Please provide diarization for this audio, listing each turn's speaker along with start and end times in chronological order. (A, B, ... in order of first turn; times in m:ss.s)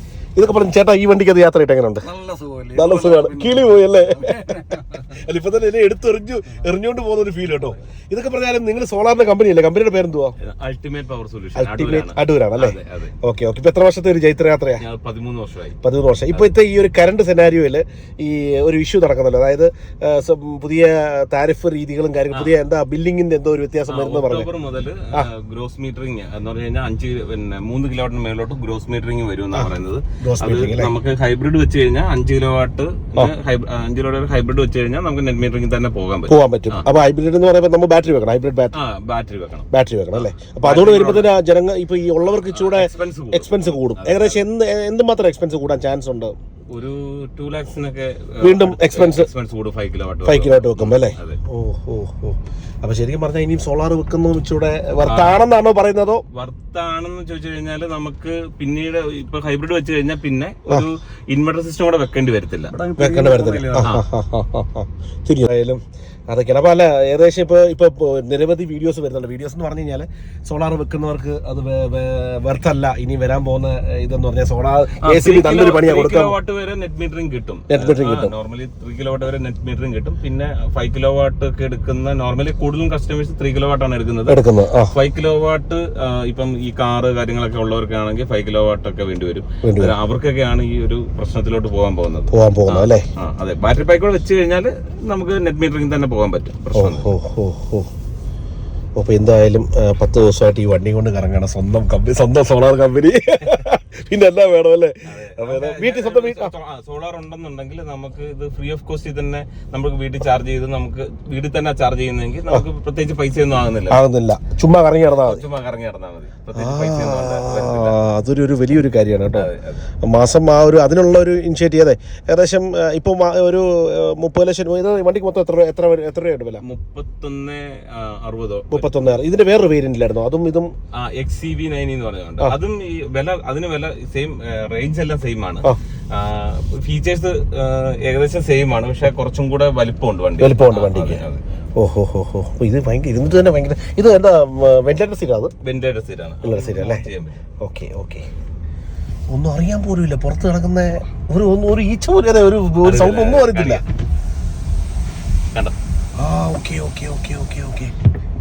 0:00.4-0:02.1 A
0:02.1-0:04.8 B
0:02.7-0:10.4 A
0:10.4-0:13.1 C
0:11.6-0:14.8 A
0:14.8-0:15.8 C
0:15.8-0:24.5 A
0:23.9-0:36.9 C
0:29.5-0:30.9 A
0:36.3-0:38.8 A
0:38.7-0:41.3 C
0:39.7-0:46.3 A
0:42.5-0:44.4 C
0:46.7-0:51.4 C
0:48.4-0:49.3 A
0:50.2-0:56.2 A
0:55.0-0:55.4 C
0:56.3-1:02.8 C
1:02.7-1:03.9 B
1:03.0-1:16.4 A
1:15.0-1:24.4 C
1:17.7-1:18.3 A
1:24.3-1:25.0 A
1:24.9-1:37.1 C
1:29.6-1:29.9 A
1:32.3-1:33.1 A
1:36.7-1:37.9 A
1:39.0-1:46.5 A
1:45.1-1:54.0 C
1:53.9-1:55.4 A
1:55.1-1:58.0 C
1:56.5-1:59.5 A
1:59.3-1:59.8 C
2:00.0-2:06.6 A
2:06.6-2:09.2 C
2:08.7-2:10.7 A
2:10.9-2:21.4 C
2:20.4-2:21.2 A
2:21.8-2:25.5 A
2:25.6-2:27.4 C
2:26.4-2:27.1 A
2:27.6-2:28.3 A
2:29.3-2:33.8 A
2:32.8-2:33.8 C
2:36.2-2:37.9 A